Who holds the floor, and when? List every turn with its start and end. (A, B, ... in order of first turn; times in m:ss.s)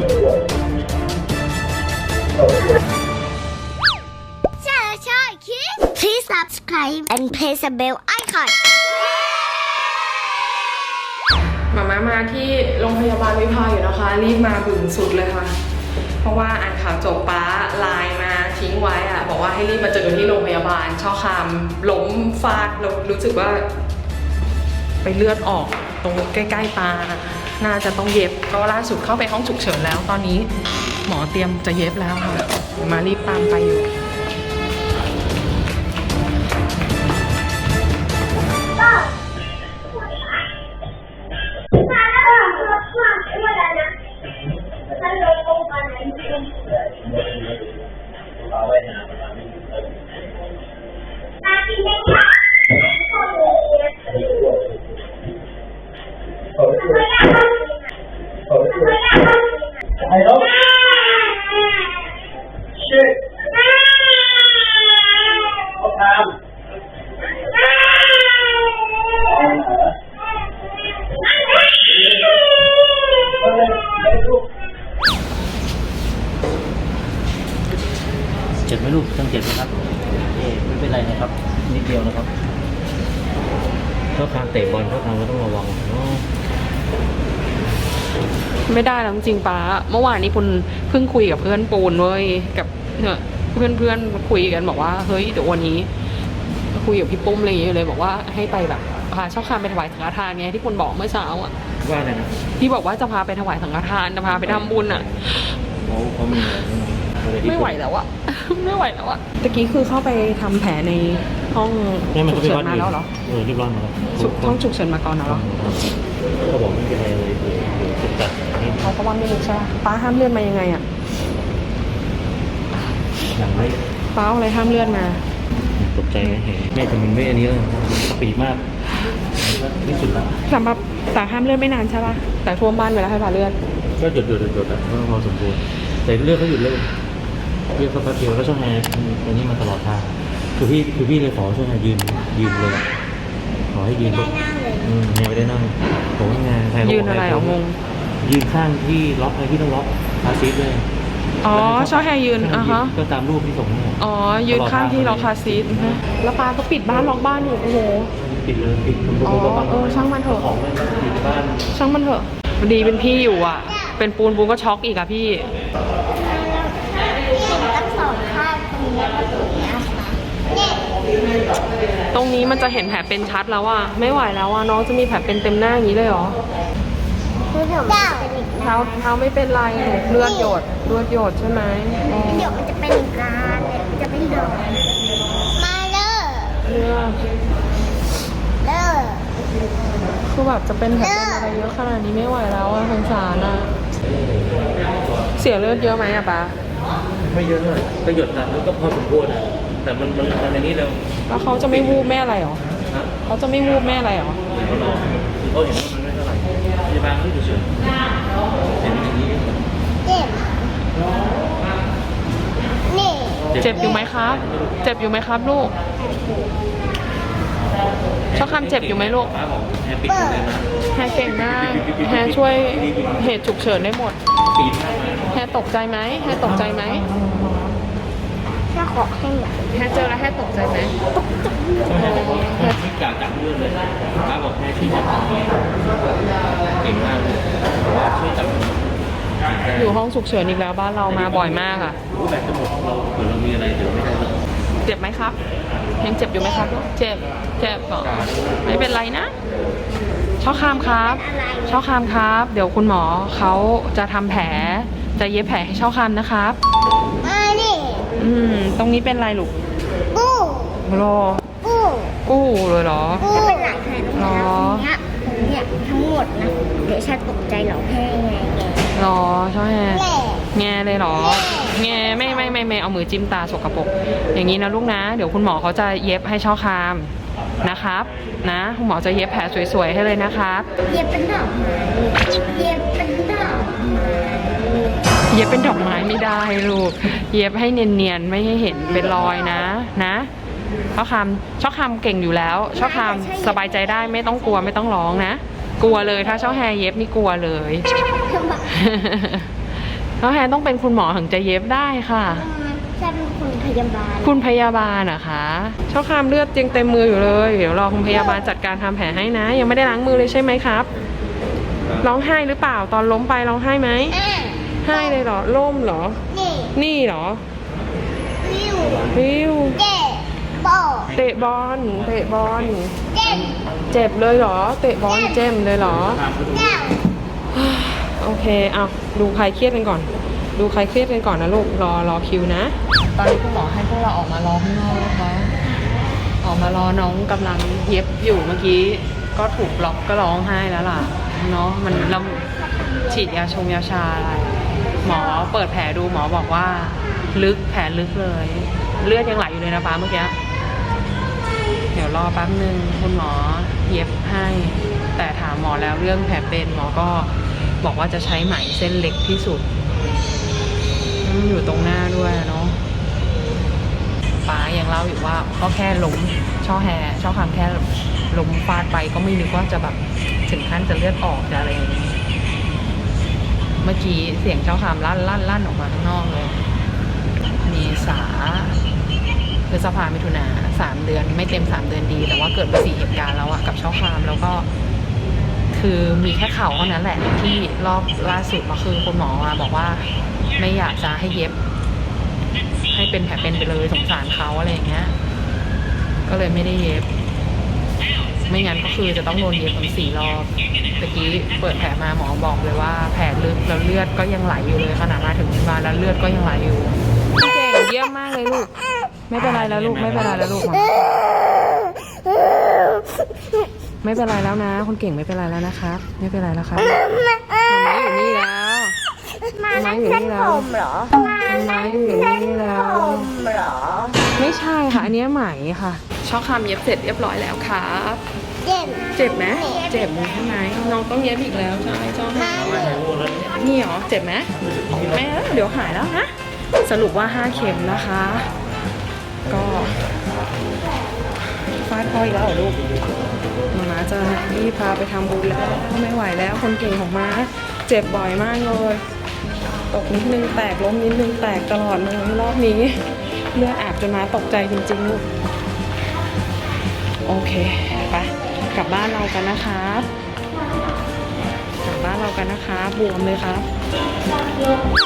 0:04.6-0:08.6 A
0:11.7-0:15.6 B
0:16.2-0:23.7 B
0:25.0-0:30.5 B
0:31.0-0:33.9 B
0:42.1-0:43.9 A
0:45.1-0:46.4 A
0:48.6-0:49.4 C
0:51.5-0:52.3 A
0:53.3-0:53.7 A
0:56.8-0:57.2 A
1:18.7-1:22.3 C
1:24.1-1:26.3 C
1:28.7-1:35.9 B
1:36.7-1:41.5 B
1:41.8-1:42.3 C
1:42.6-1:45.5 B
1:44.3-1:45.3 C
1:45.8-1:47.8 C
1:47.4-1:53.1 B
1:52.1-1:54.6 C
1:54.1-1:55.5 B
1:55.2-1:56.0 C
1:56.5-1:58.8 C
1:58.8-2:00.8 B
2:03.2-2:03.8 C
2:04.1-2:05.2 B
2:05.8-2:08.6 C
2:09.3-2:10.4 C
2:10.5-2:13.6 B
2:14.0-2:16.9 C
2:17.8-2:22.9 C
2:23.7-2:27.6 C
2:24.0-2:24.9 A
2:26.8-2:27.8 B
2:28.2-2:30.8 C
2:31.4-2:32.9 B
2:31.5-2:36.0 C
2:34.0-2:38.1 B
2:38.2-2:41.7 C
2:39.2-2:40.5 B
2:41.7-2:45.4 B
2:46.1-2:51.0 A
2:52.1-2:56.4 B
2:57.5-2:59.1 A
2:58.6-3:02.6 B
3:00.2-3:00.6 A
3:02.0-3:04.8 A
3:05.5-3:06.6 A
3:06.6-3:07.2 B
3:08.6-3:09.3 A
3:10.2-3:13.8 B
3:10.9-3:11.5 A
3:14.1-3:14.8 C
3:15.4-3:16.6 B
3:17.2-3:21.0 C
3:21.3-3:22.6 B
3:23.3-3:24.4 B
3:24.5-3:27.9 C
3:28.8-3:29.6 C
3:30.0-3:30.7 A
3:32.9-3:33.5 A
3:33.5-3:34.8 C
3:33.6-3:35.8 B
3:36.0-3:36.5 A
3:38.3-3:40.7 C
3:38.4-3:39.3 B
3:40.1-3:40.5 A
3:40.9-3:44.2 B
3:41.4-3:43.1 C
3:44.5-3:45.3 C
3:45.3-3:47.7 B
3:46.4-3:47.3 C
3:48.7-3:49.6 A
3:49.7-3:51.0 B
3:51.9-3:55.9 C
3:51.9-3:52.8 B
3:56.7-3:58.8 C
3:59.4-4:00.0 C
3:59.8-4:02.0 B
4:01.1-4:04.4 C
4:04.8-4:05.4 B
4:06.0-4:09.3 B
4:08.2-4:08.5 C
4:10.4-4:11.8 A
4:10.4-4:16.6 B
4:17.2-4:18.0 A
4:18.2-4:19.6 B
4:20.1-4:20.8 A
4:20.8-4:21.5 B
4:21.6-4:22.2 A
4:22.3-4:23.4 B
4:23.2-4:28.9 A
4:24.1-4:24.9 B
4:29.0-4:40.7 B
4:29.9-4:30.5 A
4:31.2-4:32.6 A
4:40.9-4:45.0 A
4:45.3-4:50.3 B
4:51.0-4:57.9 B
4:52.7-4:54.8 A
4:58.3-4:58.8 A
4:58.7-4:59.5 B
5:00.2-5:02.5 B
5:02.3-5:04.4 A
5:04.2-5:10.9 B
5:12.0-5:14.2 B
5:14.1-5:15.2 A
5:14.8-5:16.2 B
5:16.3-5:16.7 A
5:16.7-5:17.4 B
5:18.4-5:19.1 A
5:19.1-5:19.8 B
5:19.7-5:21.1 A
5:21.1-5:22.8 C
5:21.1-5:23.0 B
5:23.1-5:23.6 A
5:23.9-5:26.2 B
5:25.1-5:25.6 A
5:25.8-5:26.7 C
5:26.4-5:27.0 A
5:27.5-5:35.6 B
5:36.4-5:42.5 B
5:43.0-5:50.4 B
5:51.9-5:59.7 B
6:01.2-6:02.8 B
6:04.4-6:12.2 B
6:13.8-6:16.6 B
6:17.6-6:18.8 B
6:19.7-6:24.7 B
6:25.7-6:31.6 B
6:32.9-6:35.2 B
6:36.3-6:37.1 B
6:38.5-6:48.7 B
6:49.3-6:51.3 B
6:49.4-6:50.7 C
6:54.0-6:57.0 B
6:57.6-6:59.0 B
6:59.5-7:01.2 A
6:59.7-7:00.7 B
7:01.5-7:03.4 B
7:03.2-7:04.1 A
7:04.3-7:08.2 B
7:08.6-7:10.1 A
7:09.2-7:12.9 B
7:12.4-7:13.1 A
7:12.5-7:13.5 C
7:13.4-7:14.5 B
7:14.8-7:15.2 C
7:15.1-7:18.5 B
7:19.5-7:20.0 B
7:21.8-7:22.8 B
7:23.7-7:29.0 B
7:29.9-7:35.2 B
7:37.2-7:40.1 B
7:41.8-7:43.7 B